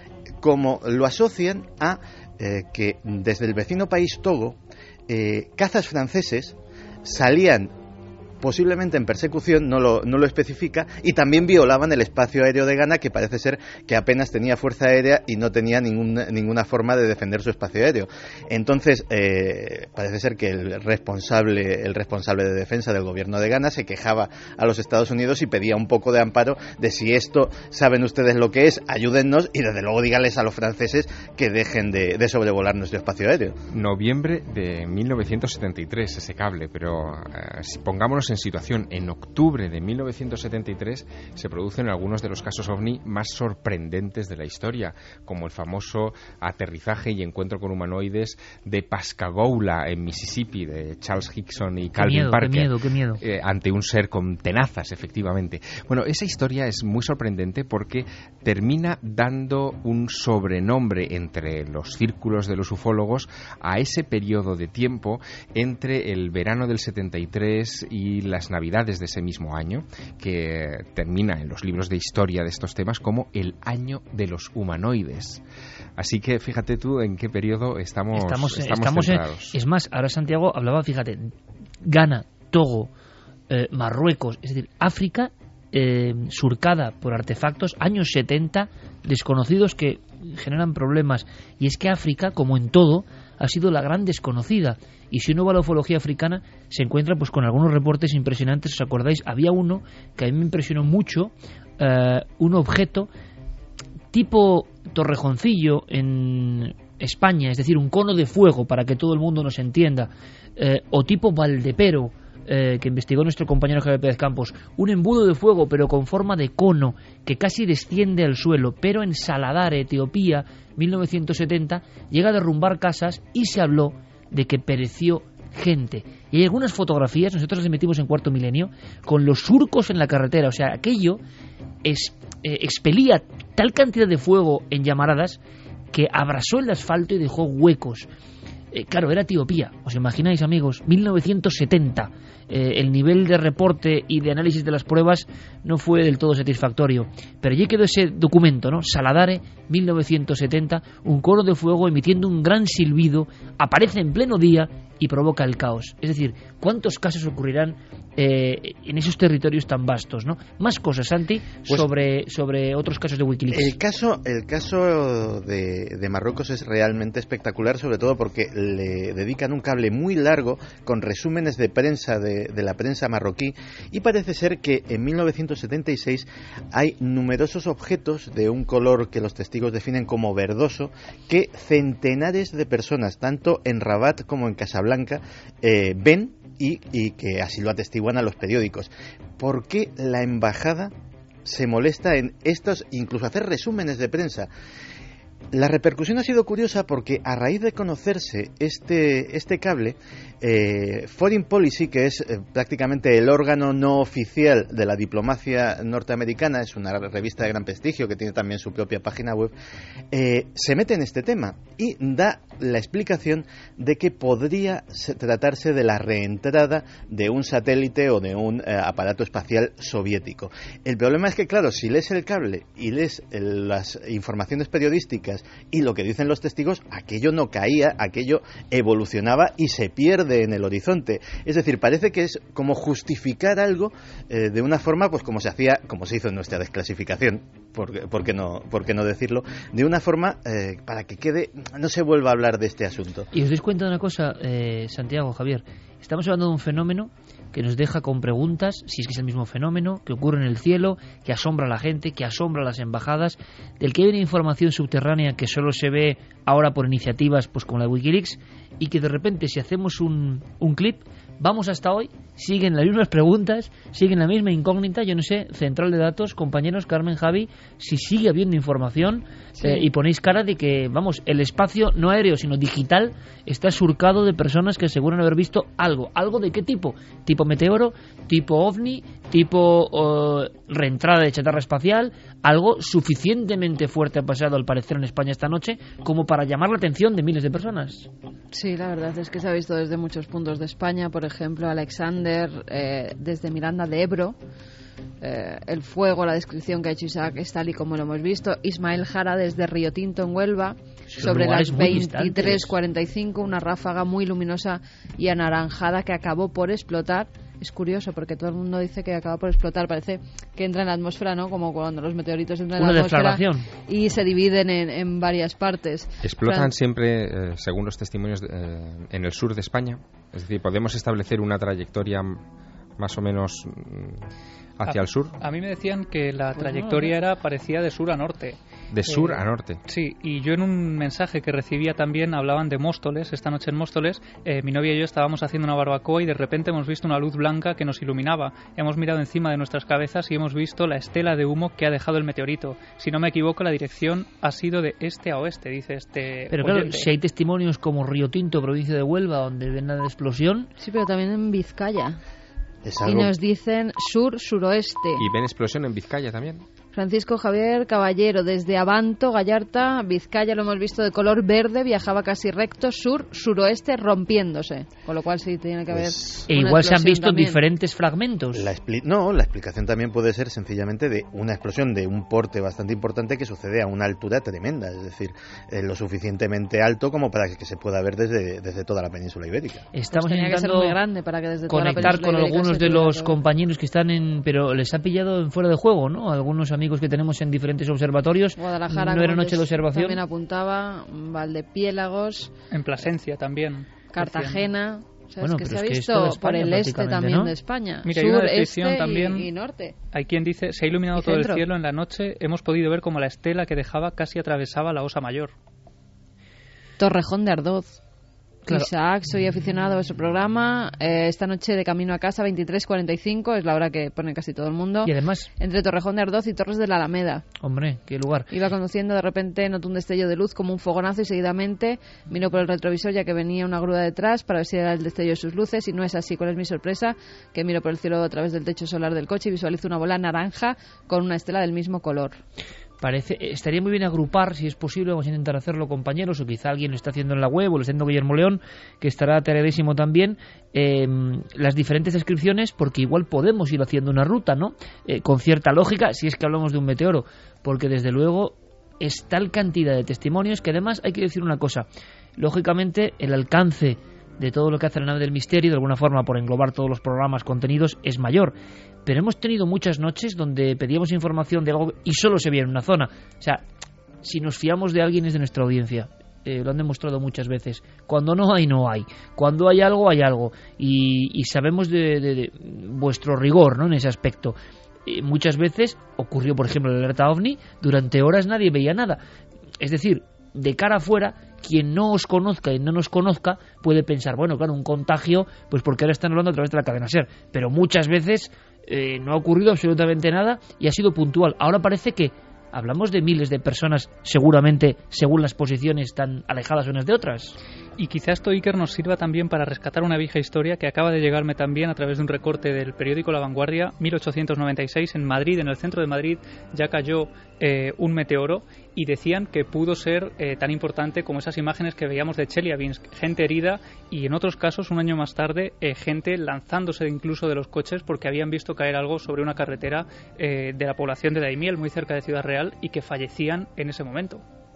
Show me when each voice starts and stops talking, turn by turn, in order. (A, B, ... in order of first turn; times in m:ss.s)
0:00.4-0:07.7 A
0:08.4-0:33.6 A
0:33.7-1:15.4 B
0:52.0-0:53.2 C
1:16.0-1:19.6 B
1:18.2-1:22.9 C
1:23.5-1:43.1 C
1:44.1-2:11.2 C
2:11.8-2:15.4 C
2:15.9-2:18.1 C
2:18.7-2:43.8 C
2:43.5-3:10.9 A
3:11.4-3:14.5 A
3:15.5-3:29.5 A
3:30.1-4:03.3 A
4:03.3-4:48.1 C
4:29.6-4:29.8 D
4:48.5-4:54.4 D
4:55.2-5:16.7 D
5:01.1-5:02.7 C
5:12.8-5:13.7 C
5:16.2-5:22.4 B
5:23.0-5:25.4 B
5:24.8-5:47.1 E
5:26.6-5:27.1 D
5:28.9-5:29.8 B
5:46.5-5:50.7 C
5:50.8-5:52.2 D
5:52.8-5:53.3 A
5:53.0-5:55.3 D
5:55.2-5:56.6 B
5:56.9-6:07.6 D
6:06.5-6:08.7 C
6:08.5-6:19.8 A
6:19.9-6:21.0 C
6:20.1-6:23.4 D
6:21.7-6:30.2 C
6:28.6-6:32.5 D
6:32.7-6:34.6 E
6:34.1-6:39.9 D
6:35.4-6:37.5 C
6:38.1-6:39.5 E
6:40.1-6:45.5 E
6:41.2-6:41.6 D
6:47.0-6:48.0 D
6:48.7-6:57.4 D
6:55.0-6:55.5 C
6:57.6-6:58.5 C
6:58.5-7:12.4 D
7:13.0-7:31.9 C
7:32.4-7:43.6 C
7:44.2-7:59.2 C
7:59.8-8:17.6 C
8:18.0-8:44.4 E